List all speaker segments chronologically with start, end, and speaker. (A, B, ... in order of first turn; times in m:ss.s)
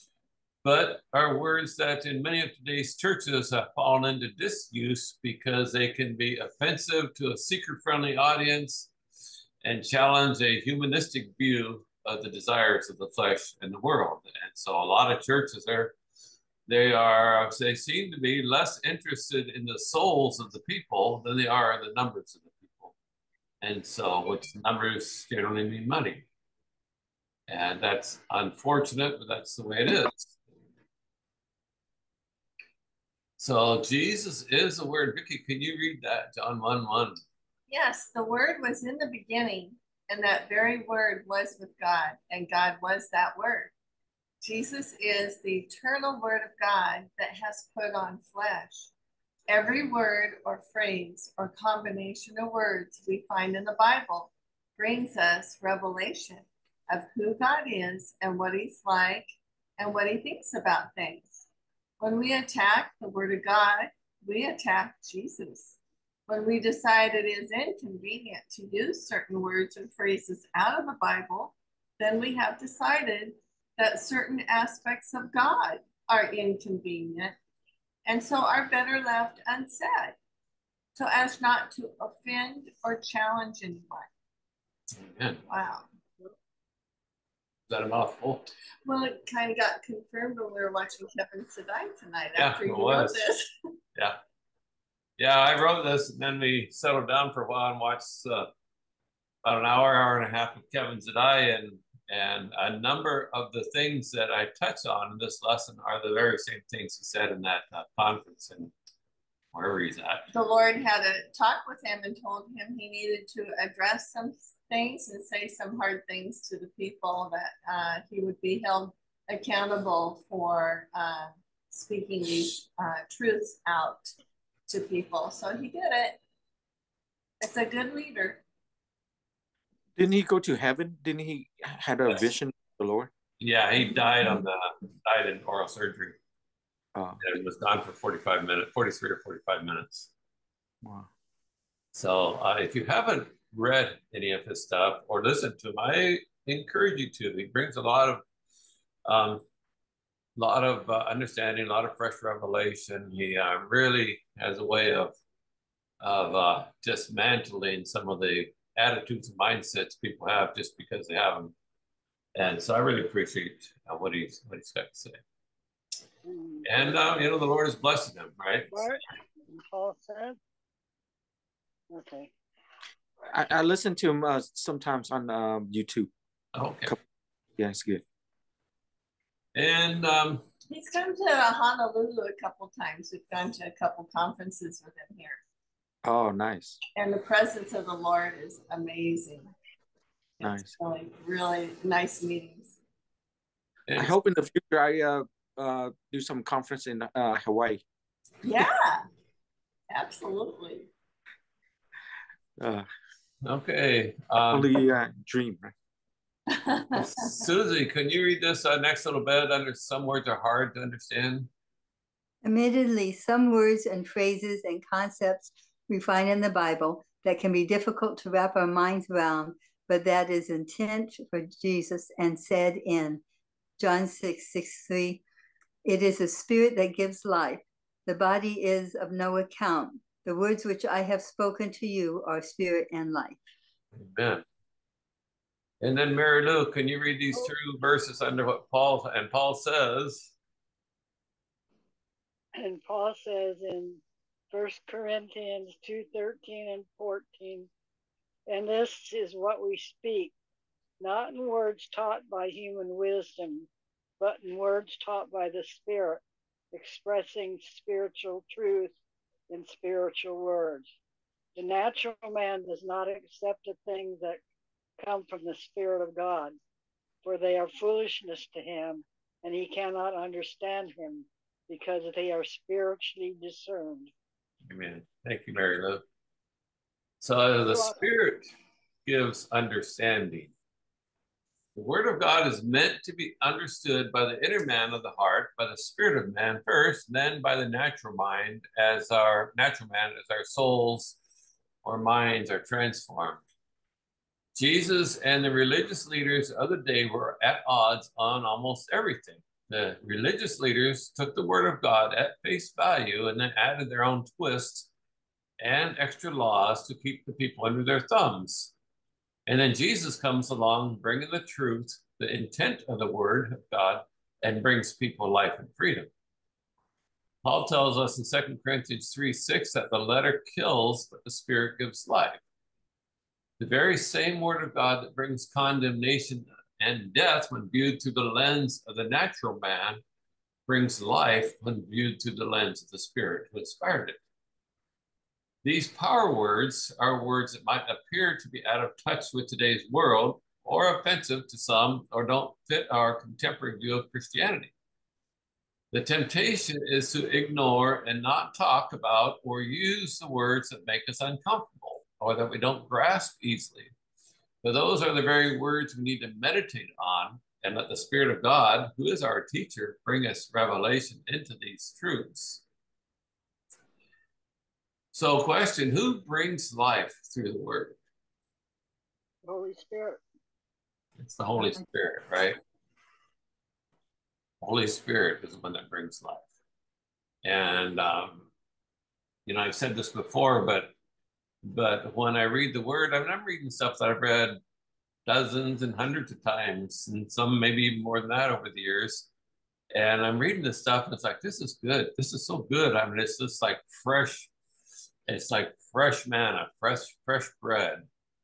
0:00.6-0:08.9 A
0:09.6-0:16.0 A
0:16.7-0:22.9 A
0:23.6-0:26.3 A
0:27.5-0:30.4 A
0:33.4-0:37.2 A
0:37.7-0:43.7 B
0:44.4-0:48.9 B
0:49.5-1:01.5 B
1:02.0-1:05.8 B
1:06.3-1:17.4 B
1:18.1-1:20.2 B
1:21.0-1:24.1 B
1:25.0-1:25.4 A
1:25.5-1:25.9 B
1:27.7-1:28.5 A
1:28.8-1:33.5 B
1:32.4-1:33.2 A
1:35.2-1:38.5 A
1:39.4-1:48.7 A
1:49.5-1:50.3 A
1:50.3-2:04.1 B
2:04.7-2:06.2 B
2:07.4-2:08.4 B
2:10.0-2:13.1 C
2:13.4-2:16.2 A
2:17.0-2:17.2 C
2:17.2-2:20.1 A
2:20.8-2:21.1 C
2:21.9-2:28.2 A
2:29.0-2:29.4 A
2:30.4-2:35.2 A
2:36.0-2:41.5 A
2:42.4-2:45.2 A
2:46.2-2:47.1 D
2:46.6-2:48.9 A
2:48.7-2:50.4 D
2:51.9-2:52.3 D
2:53.3-2:56.1 C
2:56.6-2:57.0 A
2:57.6-2:58.0 C
2:59.6-3:00.5 A
3:00.7-3:05.4 B
3:06.0-3:06.8 C
3:07.0-3:09.5 B
3:10.4-3:10.7 C
3:10.4-3:12.8 B
3:13.9-3:14.1 A
3:14.0-3:17.8 C
3:18.4-3:19.0 B
3:19.9-3:20.9 B
3:22.6-3:22.9 C
3:23.4-3:24.7 A
3:24.5-3:25.7 C
3:26.5-3:27.5 B
3:27.0-3:31.5 A
3:32.4-3:43.2 E
3:43.8-3:45.2 E
3:45.8-3:53.4 E
3:54.0-3:54.4 A
3:55.8-4:00.3 A
4:02.6-4:07.7 D
4:08.5-4:10.3 D
4:11.0-4:13.7 D
4:14.2-4:18.9 D
4:19.5-4:20.9 D
4:21.6-4:24.4 D
4:25.0-4:26.6 D
4:27.2-4:34.1 D
4:34.6-4:36.0 A
4:37.2-4:38.5 A
4:37.7-4:38.0 D
4:39.1-4:40.5 A
4:41.8-4:51.2 A
4:51.8-4:53.4 A
4:54.6-5:04.9 A
5:05.6-5:08.7 A
5:09.5-5:16.1 A
5:17.4-5:22.4 A
5:23.6-5:30.0 A
5:30.7-5:34.2 A
5:35.6-5:44.7 A
5:45.9-5:53.9 A
5:54.6-6:02.6 A
6:05.1-6:08.0 A
6:09.4-6:10.2 D
6:11.2-6:12.6 A
6:14.6-6:16.5 A
6:17.4-6:18.5 A
6:19.5-6:20.9 A
6:21.6-6:24.6 A
6:25.3-6:29.3 A
6:29.9-6:34.5 A
6:35.3-6:38.1 A